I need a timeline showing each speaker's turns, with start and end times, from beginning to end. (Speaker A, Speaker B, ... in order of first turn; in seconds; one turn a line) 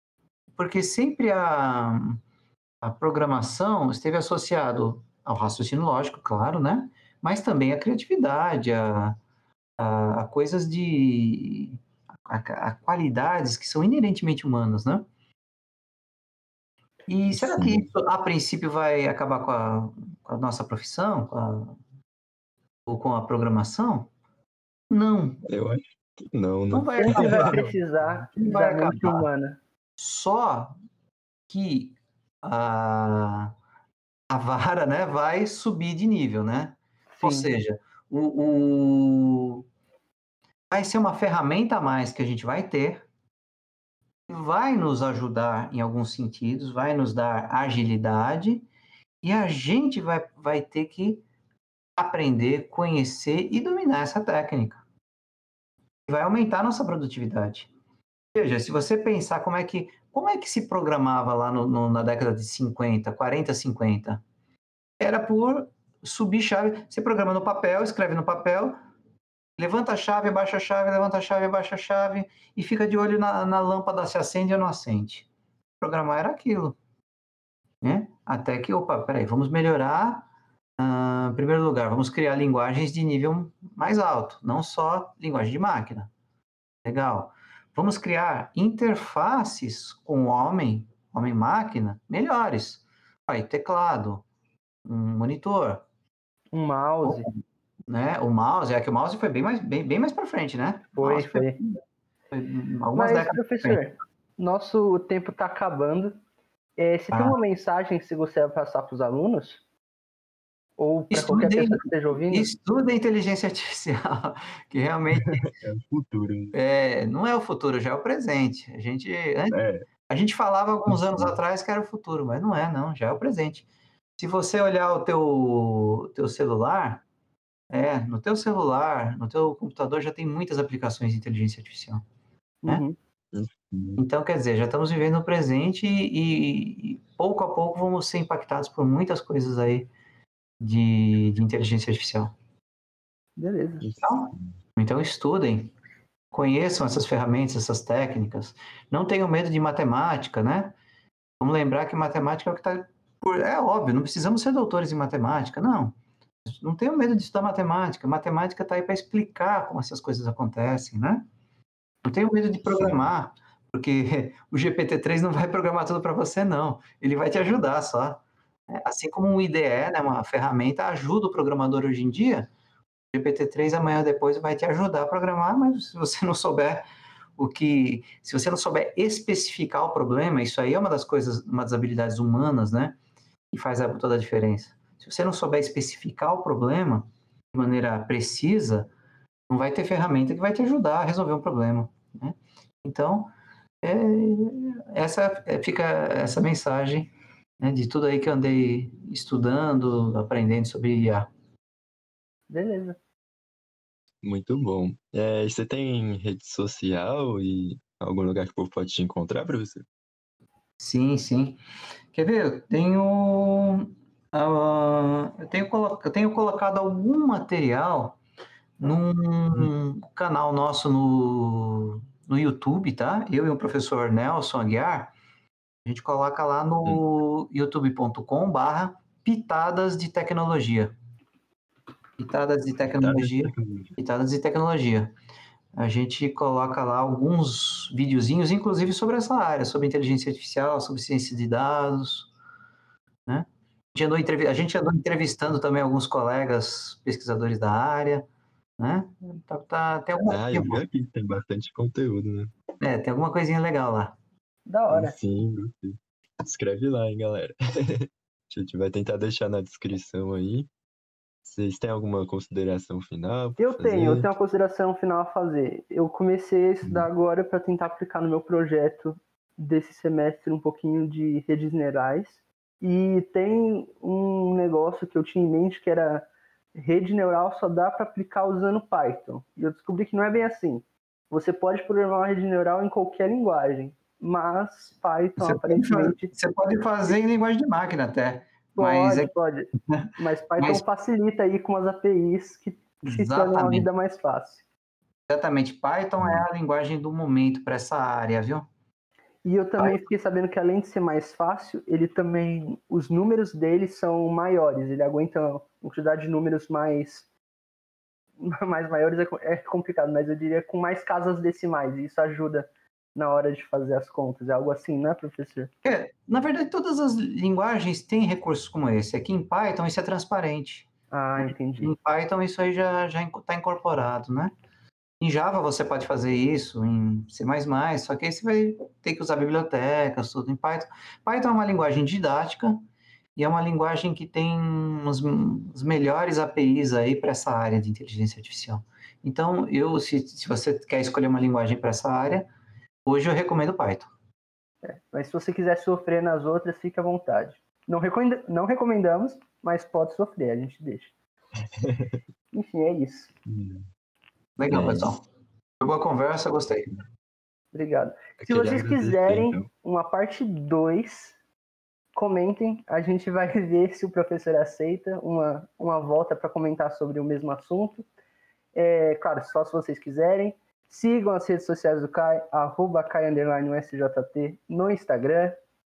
Speaker A: 0.6-2.2
Speaker A: 2.8-9.2
Speaker A: 9.8-15.1
Speaker A: 17.1-21.8
Speaker B: 17.3-17.9
Speaker A: 22.9-24.1
Speaker A: 24.9-25.4
Speaker B: 25.5-27.7
Speaker A: 26.7-27.6
Speaker C: 27.0-29.6
Speaker A: 28.3-29.3
Speaker A: 30.0-30.8
Speaker A: 31.5-33.5
Speaker A: 34.3-39.6
Speaker C: 37.1-37.5
Speaker A: 40.7-43.0
Speaker A: 44.3-48.7
Speaker A: 49.2-51.2
Speaker A: 52.0-54.8
Speaker A: 56.1-57.7
Speaker A: 58.3-64.2
Speaker A: 65.0-68.8
Speaker A: 69.6-75.3
Speaker A: 75.8-76.8
Speaker A: 77.8-80.3
Speaker A: 80.8-86.1
Speaker A: 86.8-94.2
Speaker A: 94.8-95.8
Speaker C: 96.5-97.3
Speaker A: 97.0-97.3
Speaker A: 97.9-101.8
Speaker C: 101.0-101.6
Speaker A: 102.3-103.8
Speaker C: 102.9-106.2
Speaker C: 106.8-109.6
Speaker C: 110.8-112.5
Speaker A: 111.1-115.5
Speaker B: 115.1-116.5
Speaker A: 116.5-119.6
Speaker B: 119.5-119.8
Speaker A: 120.1-123.7
Speaker B: 120.9-121.4
Speaker A: 124.2-127.0
Speaker A: 127.7-132.0
Speaker C: 132.6-132.9
Speaker B: 133.3-134.0
Speaker A: 134.0-139.9
Speaker A: 140.6-142.3
Speaker C: 143.4-143.9
Speaker B: 143.8-144.5
Speaker A: 144.0-145.7
Speaker A: 146.3-150.8
Speaker A: 151.4-161.2
Speaker A: 162.0-172.5
Speaker A: 173.1-176.8
Speaker A: 177.4-182.9
Speaker A: 183.5-188.9
Speaker A: 189.5-193.3
Speaker A: 193.8-201.3
Speaker C: 202.5-203.0
Speaker B: 204.2-209.8
Speaker A: 210.8-211.6
Speaker A: 212.1-218.2
Speaker A: 218.8-225.1
Speaker A: 225.8-230.9
Speaker A: 232.2-235.1
Speaker B: 232.9-233.9
Speaker A: 235.8-242.3
Speaker A: 243.3-248.3
Speaker A: 248.8-250.8
Speaker B: 250.3-252.5
Speaker A: 252.8-254.2
Speaker C: 254.7-255.1
Speaker B: 254.9-260.7
Speaker B: 261.4-264.3
Speaker C: 263.6-286.3
Speaker A: 285.4-289.3
Speaker C: 288.7-294.6
Speaker A: 289.9-290.8
Speaker A: 293.1-293.9
Speaker A: 295.3-298.7
Speaker B: 296.2-296.4
Speaker C: 299.4-307.2
Speaker C: 308.4-315.7
Speaker A: 315.8-324.5
Speaker C: 321.1-321.9
Speaker A: 325.2-332.8
Speaker A: 333.4-342.5
Speaker A: 343.0-344.1
Speaker C: 344.8-351.1
Speaker B: 351.8-352.2
Speaker C: 352.5-353.3
Speaker B: 353.5-353.9
Speaker A: 354.6-355.2
Speaker B: 354.7-355.1
Speaker A: 355.8-356.9
Speaker C: 357.7-361.4
Speaker B: 358.4-359.7
Speaker C: 362.1-368.1
Speaker C: 368.7-375.6